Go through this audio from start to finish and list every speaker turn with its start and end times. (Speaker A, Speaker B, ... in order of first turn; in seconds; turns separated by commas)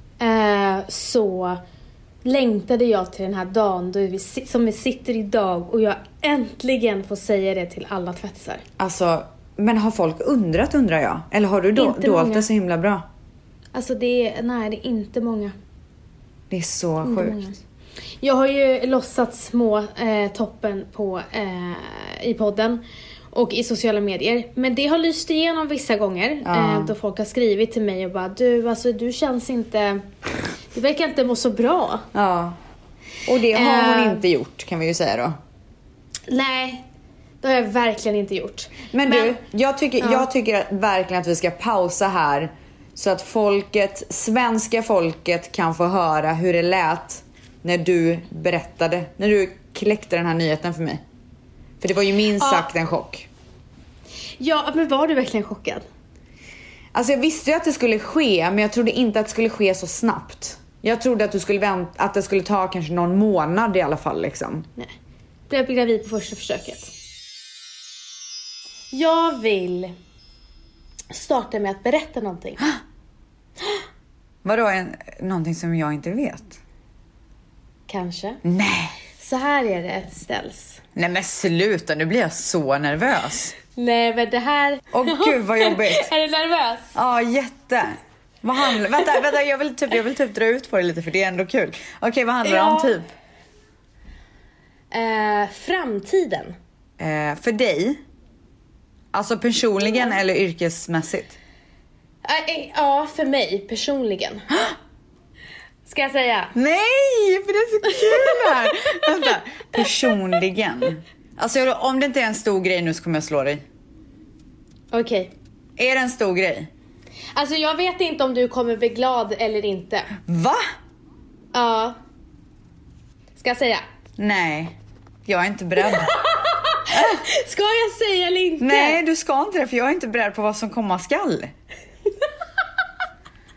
Speaker A: 0.2-1.6, Speaker A: 2.2-8.6, Speaker B: 8.8-13.1, Speaker A: 11.8-12.5, Speaker A: 13.7-15.5, Speaker B: 16.5-17.4, Speaker A: 17.0-17.6, Speaker A: 18.2-30.1, Speaker B: 26.4-26.9, Speaker A: 30.7-32.1, Speaker B: 32.1-32.6, Speaker B: 33.2-35.4, Speaker A: 33.4-34.2, Speaker A: 36.3-36.8, Speaker A: 37.4-39.4, Speaker B: 38.9-51.0, Speaker A: 40.0-40.3, Speaker B: 51.8-53.3, Speaker A: 52.4-52.7, Speaker A: 54.4-55.8, Speaker B: 56.9-64.7, Speaker A: 65.5-66.9, Speaker A: 68.9-69.9, Speaker A: 71.1-72.7, Speaker B: 74.4-76.6, Speaker A: 77.9-78.4, Speaker B: 78.4-79.0, Speaker A: 79.2-80.8, Speaker B: 81.0-83.5, Speaker A: 83.7-87.0, Speaker B: 84.9-86.1, Speaker B: 86.9-93.1, Speaker A: 88.9-89.2, Speaker A: 92.4-93.0, Speaker A: 94.9-96.5, Speaker B: 97.0-98.0, Speaker B: 99.1-101.4, Speaker A: 102.2-104.5, Speaker B: 104.5-104.7, Speaker A: 105.8-106.5, Speaker B: 106.5-113.6, Speaker A: 107.9-109.0, Speaker A: 114.9-115.3, Speaker B: 115.8-116.7, Speaker A: 117.3-120.1, Speaker B: 120.2-120.6, Speaker A: 121.5-122.0, Speaker A: 123.3-123.8, Speaker B: 124.2-126.1, Speaker A: 125.8-129.0, Speaker B: 126.9-127.2, Speaker B: 128.6-131.5